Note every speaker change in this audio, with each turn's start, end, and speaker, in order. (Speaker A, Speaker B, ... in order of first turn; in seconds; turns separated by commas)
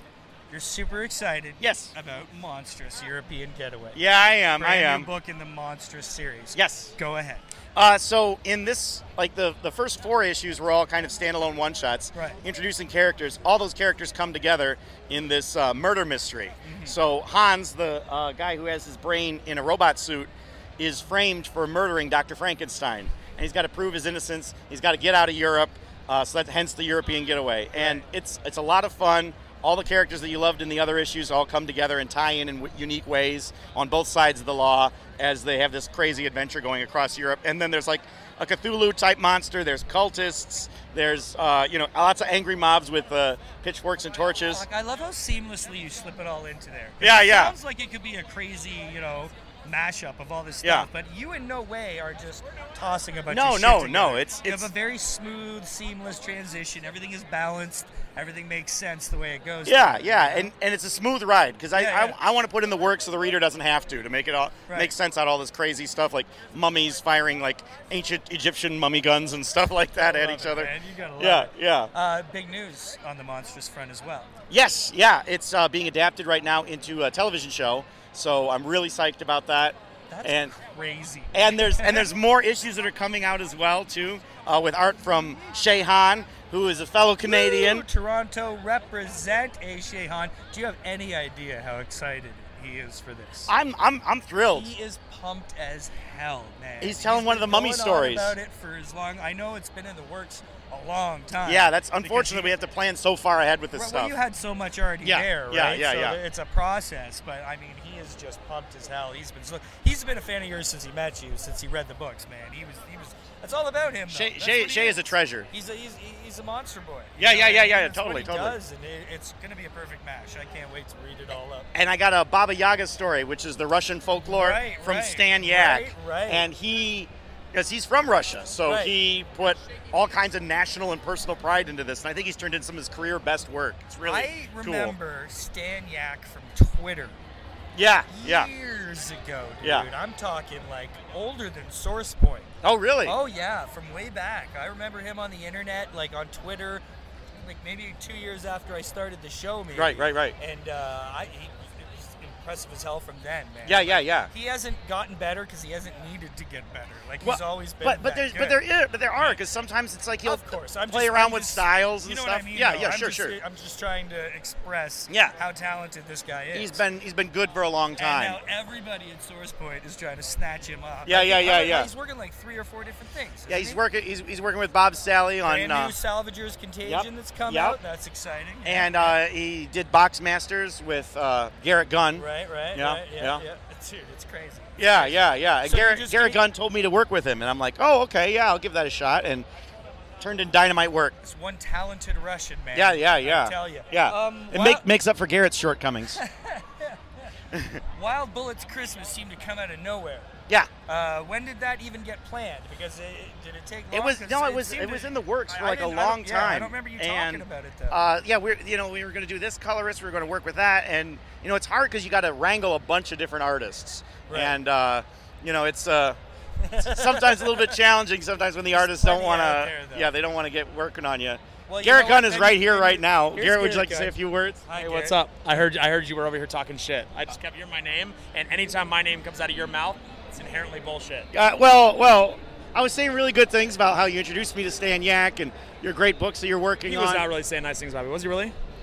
Speaker A: 0.5-4.0, Speaker B: 1.6-1.9, Speaker B: 3.9-5.1, Speaker A: 4.5-7.4, Speaker B: 6.5-6.9, Speaker B: 7.7-44.6, Speaker A: 12.1-12.4, Speaker A: 16.6-16.9, Speaker A: 27.8-28.0, Speaker A: 44.5-60.5, Speaker B: 47.0-47.5, Speaker B: 53.3-54.7, Speaker B: 59.6-71.9, Speaker A: 61.7-62.1, Speaker A: 64.7-64.9, Speaker A: 70.0-74.3, Speaker B: 74.5-80.5, Speaker A: 80.1-82.1, Speaker B: 81.3-87.8, Speaker A: 87.2-93.5, Speaker B: 93.5-94.7, Speaker A: 94.5-102.5, Speaker B: 96.8-98.3, Speaker B: 101.4-104.1, Speaker A: 103.7-121.7, Speaker B: 105.0-106.2, Speaker B: 114.1-115.5, Speaker B: 117.2-118.6, Speaker B: 121.7-134.9, Speaker A: 124.2-126.5, Speaker A: 128.6-128.9, Speaker A: 134.0-137.2, Speaker B: 137.7-138.5, Speaker A: 138.1-142.5, Speaker B: 142.6-143.2, Speaker A: 143.0-146.8, Speaker A: 147.4-158.6, Speaker B: 149.7-150.3, Speaker B: 153.7-154.3, Speaker B: 157.2-163.3, Speaker A: 159.2-159.4, Speaker A: 160.2-166.8, Speaker B: 165.1-165.3, Speaker B: 166.5-168.4, Speaker A: 168.0-173.8, Speaker B: 171.1-171.9, Speaker B: 173.5-175.9, Speaker A: 175.4-179.2, Speaker B: 176.8-177.8, Speaker B: 178.6-183.4, Speaker A: 182.2-186.4, Speaker B: 184.8-189.5, Speaker B: 190.2-191.2, Speaker A: 191.2-194.8, Speaker B: 192.7-196.2, Speaker A: 196.1-197.3, Speaker B: 197.5-197.8, Speaker A: 197.9-200.3, Speaker A: 200.8-208.0, Speaker B: 203.9-216.2, Speaker A: 214.3-214.6, Speaker A: 216.6-217.8, Speaker B: 216.8-224.7, Speaker A: 218.7-220.1, Speaker A: 221.7-225.2, Speaker C: 224.7-231.3, Speaker B: 231.3-237.3, Speaker C: 236.8-238.6